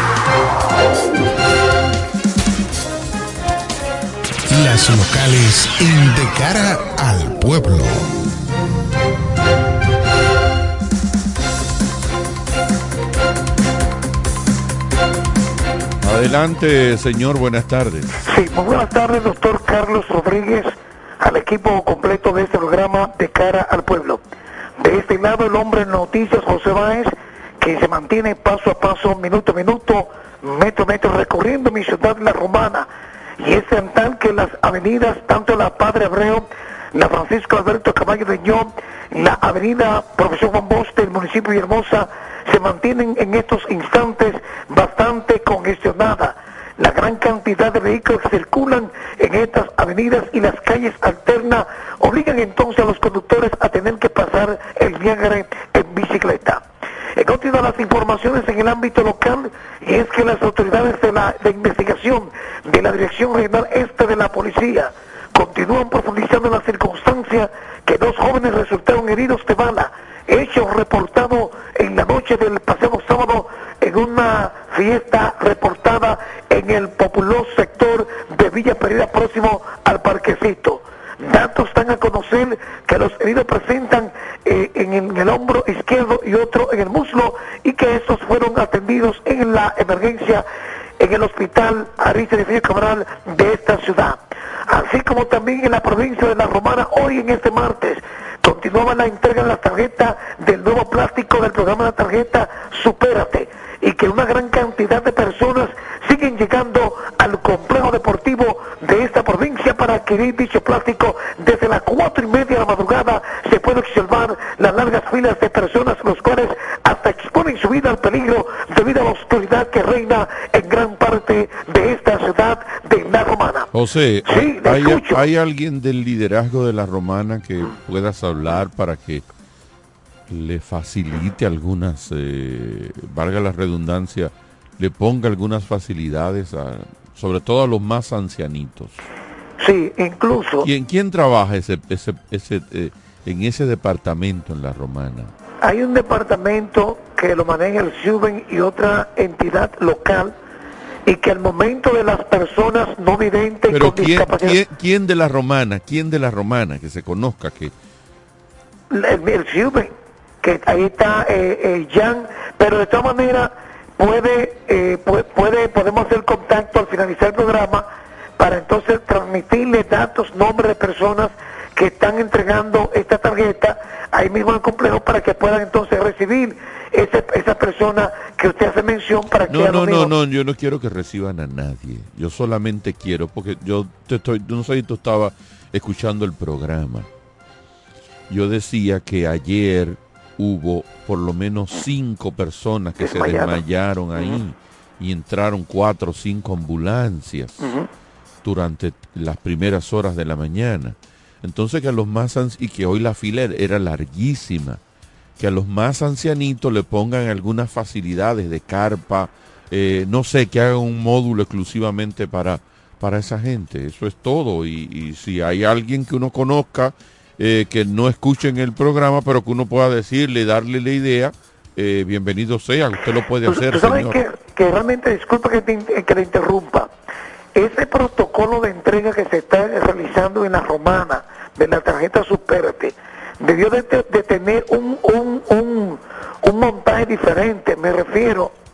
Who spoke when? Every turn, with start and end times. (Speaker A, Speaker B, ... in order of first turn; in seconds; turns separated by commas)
Speaker A: 4.5-8.1, Speaker B: 16.0-18.1, Speaker C: 18.3-24.2, Speaker C: 24.8-32.9, Speaker C: 33.4-56.6, Speaker C: 57.2-90.5, Speaker C: 91.0-123.7, Speaker B: 123.7-129.2, Speaker C: 124.3-125.2, Speaker B: 130.3-139.0, Speaker C: 139.6-140.7, Speaker B: 140.6-145.3, Speaker C: 145.6-150.3, Speaker C: 151.1-154.6, Speaker B: 153.7-157.7, Speaker C: 158.9-167.8, Speaker C: 168.4-180.1, Speaker B: 179.5-187.1, Speaker B: 188.3-197.7, Speaker C: 193.0-193.6, Speaker C: 197.6-197.9, Speaker B: 198.4-204.8, Speaker B: 205.4-224.2, Speaker C: 223.5-226.9, Speaker C: 227.6-238.5